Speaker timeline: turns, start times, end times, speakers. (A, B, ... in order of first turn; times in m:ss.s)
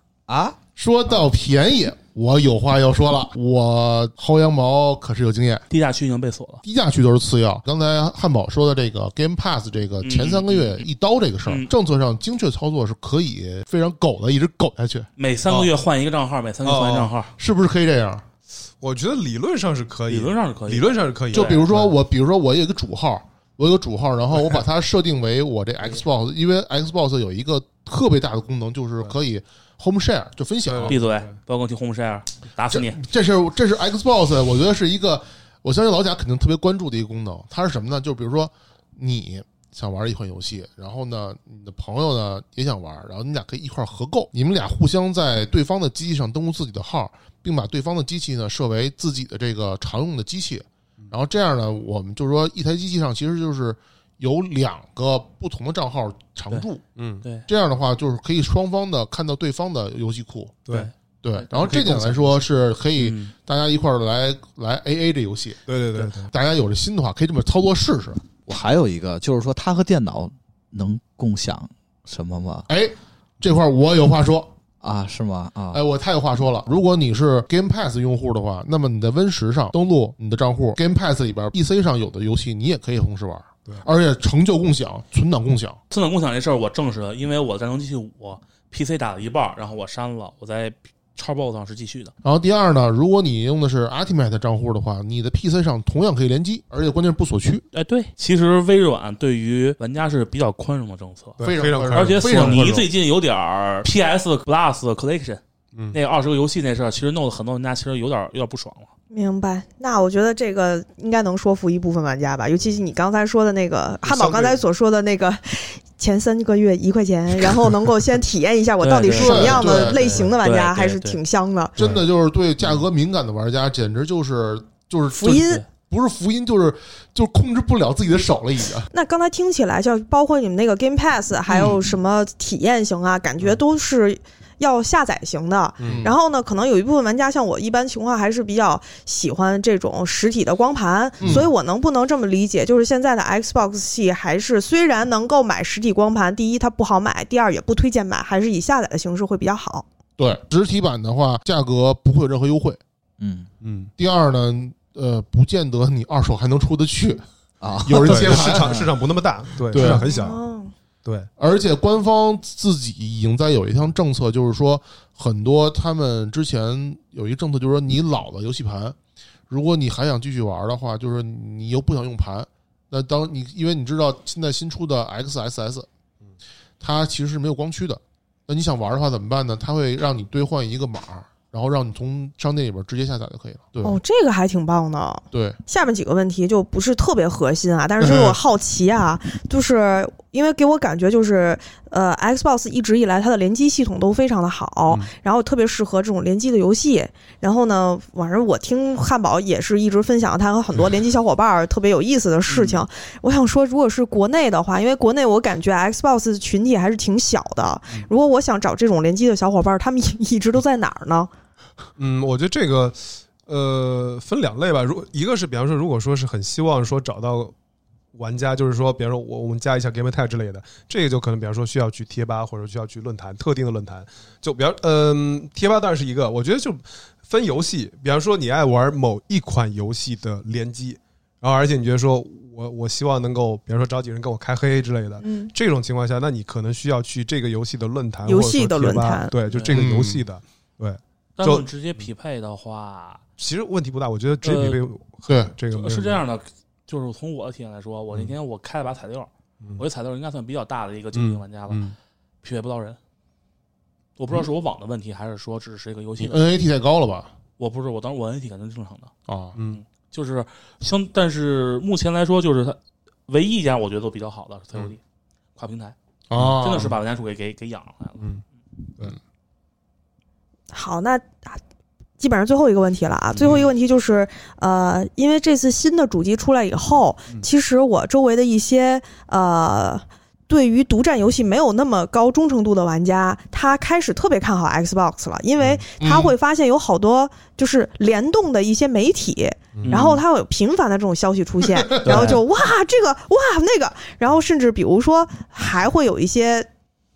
0:00.3-0:00.6 A
0:00.8-0:05.6 B
0:05.7-0:06.6 C
0:06.6-0:15.1 B
0:10.0-0:10.9 C
0:11.4-0:11.7 C
0:15.2-0:17.3 C
0:16.6-0:17.1 D
0:17.4-0:18.2 B
0:18.8-0:21.9 D
0:20.1-0:21.6 C
0:21.3-0:31.0 B
0:30.6-0:31.3 D
0:30.9-0:33.0 C
0:32.7-0:56.8 B
0:57.0-0:57.2 D
0:57.2-0:57.5 C
0:57.5-1:00.6 B
1:00.7-1:01.9 C
1:01.2-1:08.2 B
1:01.6-1:02.2 D
1:03.0-1:03.3 C
1:05.7-1:06.3 D
1:08.4-1:12.6 A
1:12.7-1:14.5 B
1:14.8-1:15.8 A
1:15.7-1:25.8 B
1:25.9-1:32.1 C
1:32.2-1:37.6 B
1:37.7-1:48.9 C
1:41.4-1:42.8 D
1:41.4-1:42.9 B
1:49.1-2:01.8 E
1:54.0-1:54.6 D
1:58.8-2:01.2 C
1:59.2-2:00.3 B
2:01.8-2:02.0 D
2:01.8-2:08.9 B
2:05.2-2:05.6 E
2:05.2-2:05.6 C
2:08.9-2:29.8 E
2:15.8-2:16.1 D
2:15.8-2:16.1 B
2:21.2-2:21.5 B
2:30.2-2:32.8 B
2:33.2-2:33.5 A
2:33.6-2:33.9 D
2:34.0-2:37.2 B
2:37.6-2:38.9 A
2:37.8-2:38.7 B
2:38.0-2:40.4 D
2:39.7-2:40.1 B
2:39.8-2:40.7 E
2:41.4-2:49.0 B
2:49.5-2:55.9 B
2:56.8-3:04.0 B
3:03.8-3:31.3 E
3:05.3-3:05.6 B
3:08.0-3:08.4 B
3:22.5-3:22.8 D
3:32.0-3:37.5 D
3:38.1-4:01.6 D
3:55.2-3:55.5 E
3:58.2-3:59.3 E
3:59.5-3:59.8 C
3:59.7-4:00.2 B
4:01.4-4:03.2 C
4:03.4-4:06.2 D
4:04.4-4:04.8 C
4:05.3-4:05.5 B
4:05.7-4:11.8 C
4:11.1-4:12.0 D
4:12.4-4:13.0 C
4:14.2-4:16.5 C
4:16.2-4:17.3 B
4:17.6-4:19.1 C
4:19.3-4:19.6 B
4:19.6-4:19.8 D
4:19.7-4:25.0 C
4:25.6-4:26.0 C
4:26.3-4:27.0 B
4:26.5-4:28.2 C
4:30.7-4:31.6 E
4:32.2-4:56.7 E
4:33.4-4:33.7 D
4:46.0-4:46.3 B
4:49.8-4:50.0 D
4:49.8-4:50.2 C
4:51.7-4:52.1 B
4:52.0-4:52.4 C